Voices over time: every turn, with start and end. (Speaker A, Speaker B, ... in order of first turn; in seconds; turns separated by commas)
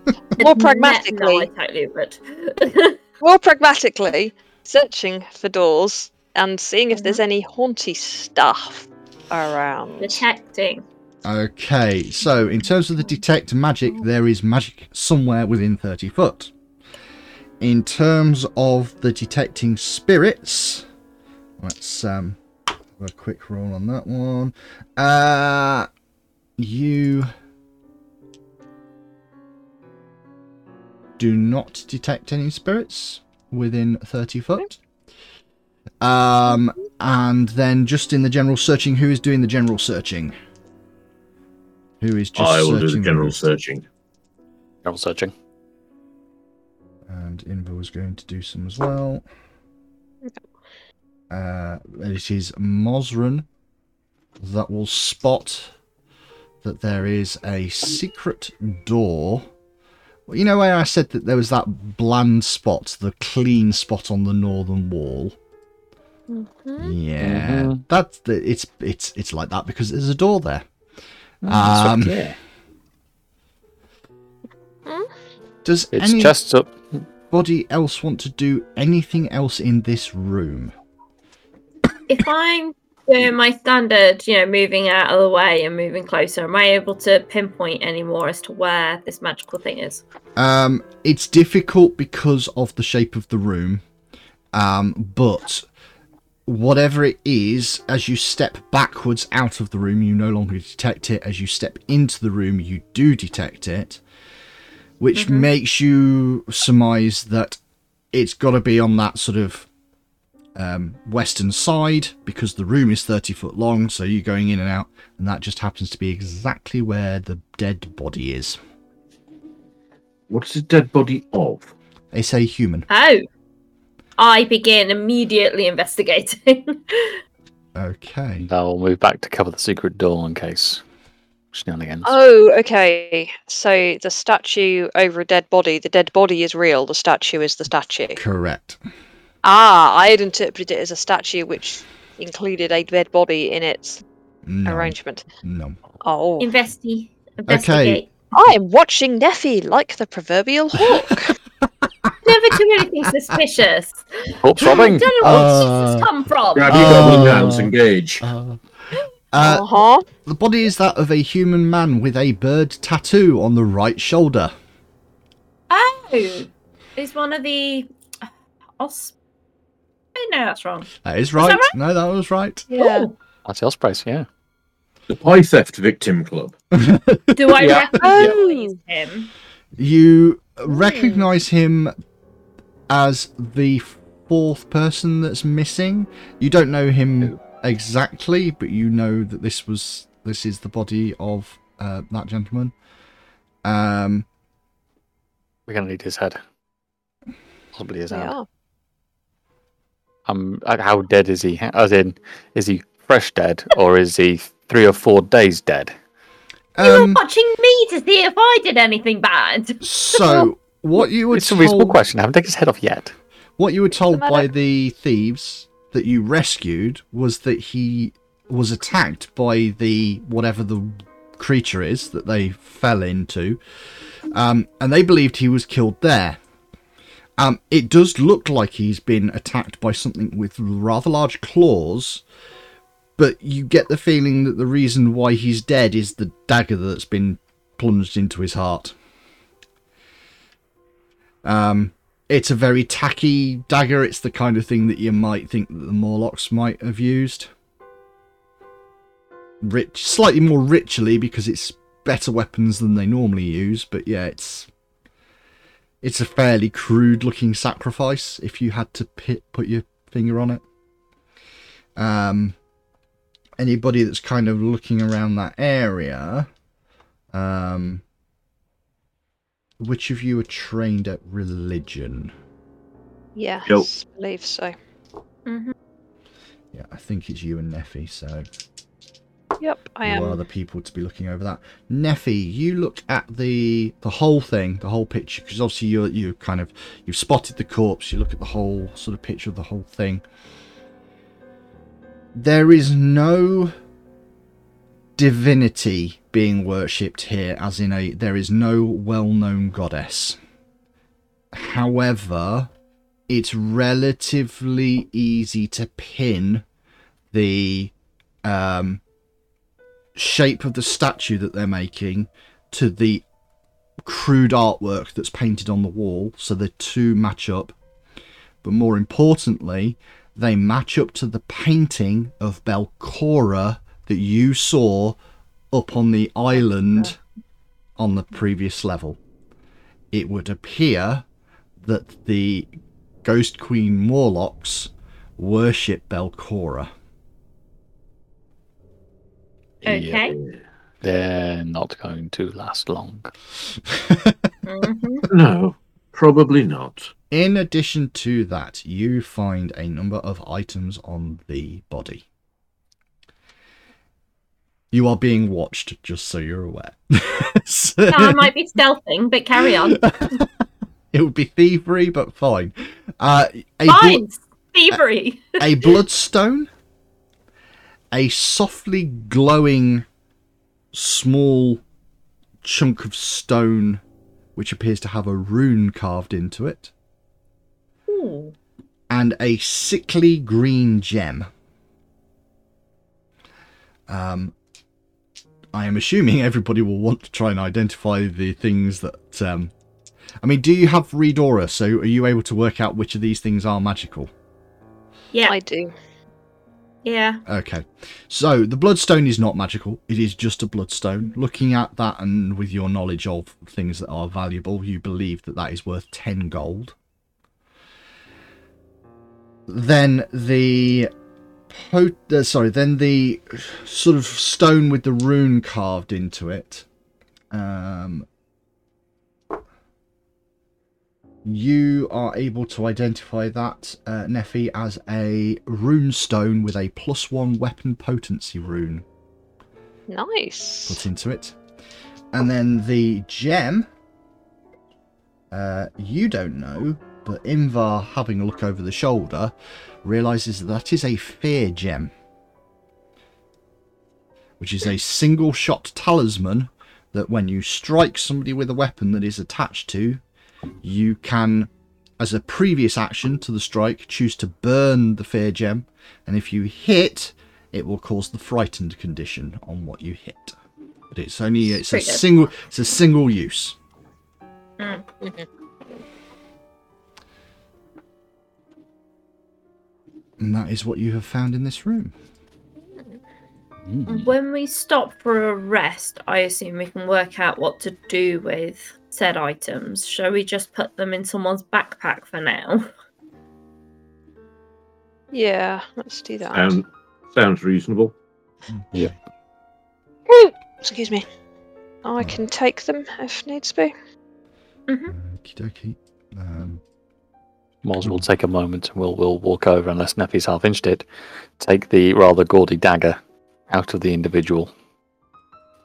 Speaker A: 0.4-1.5, Speaker B: 0.4-3.0, Speaker A: 3.2-10.2, Speaker B: 10.0-10.8, Speaker C: 11.2-16.5, Speaker C: 17.6-20.8, Speaker C: 21.6-22.4, Speaker C: 23.0-25.9, Speaker C: 26.6-27.3, Speaker C: 31.2-34.8, Speaker C: 36.0-40.3, Speaker C: 42.0-43.4, Speaker D: 42.4-43.8, Speaker E: 44.8-45.3, Speaker C: 47.1-49.2, Speaker C: 51.3-53.5, Speaker C: 54.4-55.7, Speaker C: 56.6-59.5, Speaker C: 60.3-65.3, Speaker A: 66.3-66.9, Speaker C: 66.8-70.7, Speaker E: 67.2-67.8, Speaker E: 71.4-72.4, Speaker C: 71.5-72.2, Speaker C: 75.6-76.3, Speaker E: 75.9-77.0, Speaker C: 77.3-80.7, Speaker B: 82.1-90.0, Speaker C: 90.4-93.8, Speaker C: 94.5-95.7, Speaker C: 96.5-104.0, Speaker C: 105.0-107.6, Speaker B: 105.1-105.5, Speaker C: 108.1-109.7, Speaker C: 110.5-118.6, Speaker D: 120.3-121.7, Speaker C: 122.1-122.9, Speaker B: 122.9-123.2, Speaker B: 124.2-127.2, Speaker C: 127.7-128.5, Speaker E: 128.4-130.8, Speaker E: 131.5-132.1, Speaker A: 132.0-138.2, Speaker C: 138.1-138.8, Speaker A: 139.4-144.0, Speaker C: 144.5-145.8, Speaker A: 144.7-145.2, Speaker A: 146.0-146.5, Speaker B: 146.4-148.1, Speaker C: 147.5-148.0, Speaker A: 148.3-151.3, Speaker C: 150.8-152.1, Speaker B: 152.2-157.0, Speaker E: 154.4-155.4, Speaker C: 155.2-156.1, Speaker D: 156.5-158.3, Speaker C: 156.7-164.5, Speaker A: 159.4-160.0, Speaker B: 165.7-167.9, Speaker B: 168.8-169.1, Speaker B: 170.1-171.7, Speaker C: 171.0-172.7, Speaker A: 172.7-173.1, Speaker B: 172.8-173.1, Speaker E: 173.4-174.3, Speaker D: 175.1-176.5, Speaker C: 176.7-177.6, Speaker B: 177.3-179.3, Speaker E: 177.6-178.3, Speaker A: 178.0-178.8, Speaker C: 179.8-181.9, Speaker A: 180.7-181.2, Speaker C: 182.9-192.7, Speaker C: 193.6-194.2, Speaker E: 195.7-196.4, Speaker E: 197.7-198.3, Speaker A: 198.1-198.4, Speaker E: 200.2-205.9, Speaker C: 206.8-207.2, Speaker B: 206.8-210.5, Speaker C: 209.8-212.0, Speaker E: 211.3-213.1, Speaker C: 213.6-223.6, Speaker A: 214.1-214.5, Speaker C: 224.3-226.4, Speaker C: 227.4-232.2, Speaker C: 233.2-238.9, Speaker C: 241.4-247.5, Speaker C: 249.6-254.7, Speaker C: 256.0-260.6, Speaker C: 262.0-262.6, Speaker C: 263.6-266.5, Speaker C: 267.3-268.0, Speaker C: 269.8-272.3, Speaker A: 273.4-274.7, Speaker B: 275.4-275.7, Speaker C: 276.7-278.5, Speaker A: 279.6-280.4, Speaker C: 280.0-290.2, Speaker C: 292.3-293.7, Speaker C: 295.2-300.4, Speaker C: 301.5-302.7, Speaker C: 303.3-306.6, Speaker C: 307.3-307.9, Speaker C: 308.4-309.0, Speaker C: 310.1-313.2, Speaker C: 314.0-317.7, Speaker C: 318.6-325.2, Speaker C: 325.7-327.2, Speaker C: 328.0-329.2, Speaker C: 330.1-331.2, Speaker C: 331.8-332.7, Speaker C: 333.2-336.9, Speaker E: 339.8-340.3, Speaker B: 339.8-340.4, Speaker E: 341.0-343.3, Speaker C: 343.9-344.4, Speaker B: 344.7-345.2, Speaker D: 345.3-347.1, Speaker C: 347.3-352.2, Speaker C: 354.9-358.5, Speaker B: 358.1-360.4, Speaker C: 359.6-360.5, Speaker C: 361.1-364.2, Speaker B: 363.9-365.9, Speaker C: 365.6-366.7, Speaker C: 368.1-370.1, Speaker C: 370.9-371.8, Speaker C: 372.6-374.0, Speaker C: 374.5-376.9, Speaker B: 378.1-378.5, Speaker C: 379.1-381.5, Speaker C: 384.1-384.5, Speaker C: 385.7-389.7, Speaker C: 390.4-394.3, Speaker A: 395.4-395.9, Speaker B: 397.0-397.4, Speaker C: 397.5-406.9, Speaker C: 409.7-411.1, Speaker C: 411.7-416.9, Speaker C: 417.5-418.3, Speaker C: 421.4-429.0, Speaker A: 430.1-431.0, Speaker C: 430.9-431.6, Speaker C: 432.3-433.9, Speaker C: 435.5-442.1, Speaker C: 444.6-450.2, Speaker C: 450.8-460.6, Speaker C: 461.1-463.8, Speaker B: 461.9-462.2, Speaker B: 464.8-465.1, Speaker A: 465.2-465.5, Speaker C: 470.4-472.1, Speaker E: 473.9-474.3, Speaker B: 474.1-482.9, Speaker A: 485.3-486.8, Speaker D: 486.5-488.1, Speaker C: 488.7-489.1, Speaker A: 490.3-491.2, Speaker A: 492.0-493.9, Speaker B: 494.9-495.1, Speaker C: 495.1-496.8, Speaker E: 497.8-504.7